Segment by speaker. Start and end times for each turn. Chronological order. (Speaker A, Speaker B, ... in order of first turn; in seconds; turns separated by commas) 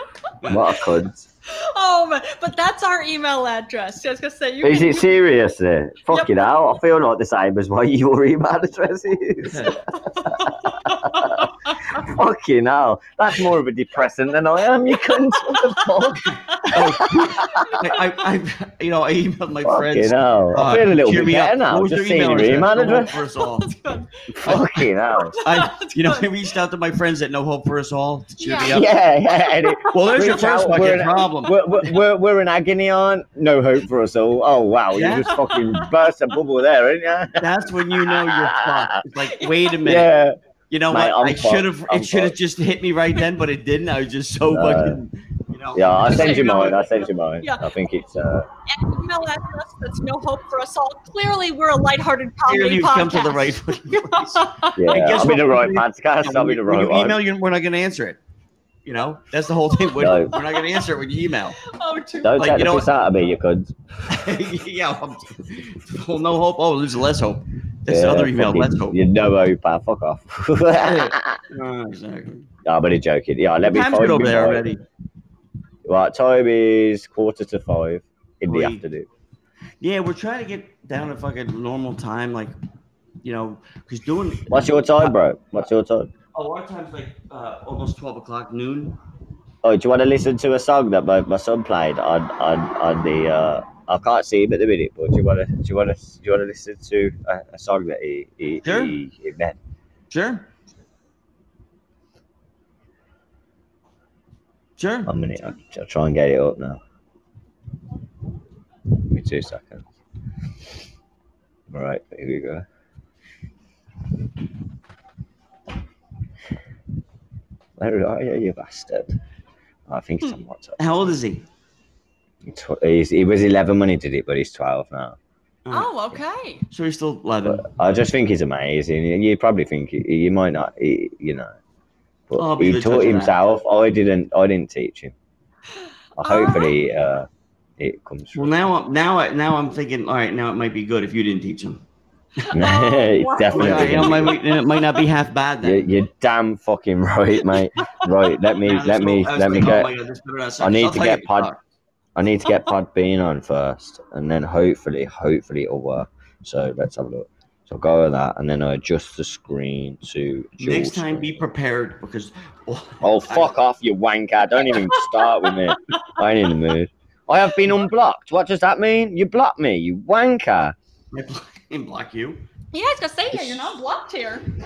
Speaker A: 0.4-0.8, Speaker B: 0.5-1.3, Speaker C: 1.5-5.1, Speaker B: 4.6-17.7, Speaker C: 6.1-6.4, Speaker A: 9.4-9.8, Speaker C: 10.2-12.0, Speaker C: 15.5-15.8, Speaker C: 16.5-16.8, Speaker A: 16.7-23.7, Speaker C: 17.5-17.8, Speaker B: 19.6-23.1, Speaker C: 23.4-26.4, Speaker B: 24.3-25.4, Speaker A: 25.4-29.0, Speaker C: 28.4-28.8, Speaker B: 28.7-39.0, Speaker C: 29.3-30.1, Speaker A: 29.9-32.0, Speaker A: 34.9-35.4, Speaker A: 37.4-40.1, Speaker C: 39.2-39.8, Speaker B: 39.8-40.4, Speaker A: 40.7-46.8, Speaker B: 40.9-42.3, Speaker B: 44.5-45.0, Speaker B: 45.8-48.5, Speaker C: 46.0-47.7, Speaker C: 48.7-54.9, Speaker A: 52.5-58.2, Speaker B: 54.8-57.2, Speaker A: 58.8-61.6, Speaker C: 59.7-60.9, Speaker B: 60.0-60.4, Speaker C: 61.6-62.6, Speaker B: 62.2-63.8, Speaker A: 62.4-62.9, Speaker A: 64.1-69.0, Speaker B: 67.9-71.4, Speaker A: 70.8-72.5, Speaker B: 72.7-74.7, Speaker A: 73.7-74.8, Speaker B: 75.9-79.1, Speaker A: 78.5-78.8, Speaker A: 79.8-82.6, Speaker A: 83.2-85.2, Speaker B: 84.5-86.1, Speaker A: 86.3-89.0, Speaker B: 89.6-99.6, Speaker A: 98.6-99.0, Speaker A: 100.1-100.5, Speaker A: 104.8-105.1, Speaker B: 105.1-106.8, Speaker B: 109.1-109.9, Speaker B: 111.7-112.7, Speaker B: 117.8-119.1, Speaker B: 119.9-120.8, Speaker A: 120.8-121.5, Speaker B: 122.4-125.2, Speaker A: 125.7-127.7, Speaker C: 125.7-126.7, Speaker B: 127.5-131.6, Speaker B: 132.3-135.1, Speaker A: 132.4-133.4, Speaker B: 136.2-137.3, Speaker C: 136.2-136.8, Speaker B: 137.8-138.5, Speaker A: 138.3-141.8, Speaker A: 142.4-142.7, Speaker B: 142.5-144.4, Speaker C: 142.5-145.1, Speaker A: 143.5-145.9, Speaker B: 145.6-149.9, Speaker C: 147.8-148.1, Speaker A: 148.6-151.6, Speaker B: 150.6-151.5, Speaker B: 152.2-161.4, Speaker A: 160.6-163.6, Speaker B: 163.0-170.8, Speaker C: 164.6-165.8, Speaker A: 171.1-172.5, Speaker C: 172.7-174.5, Speaker B: 173.3-173.6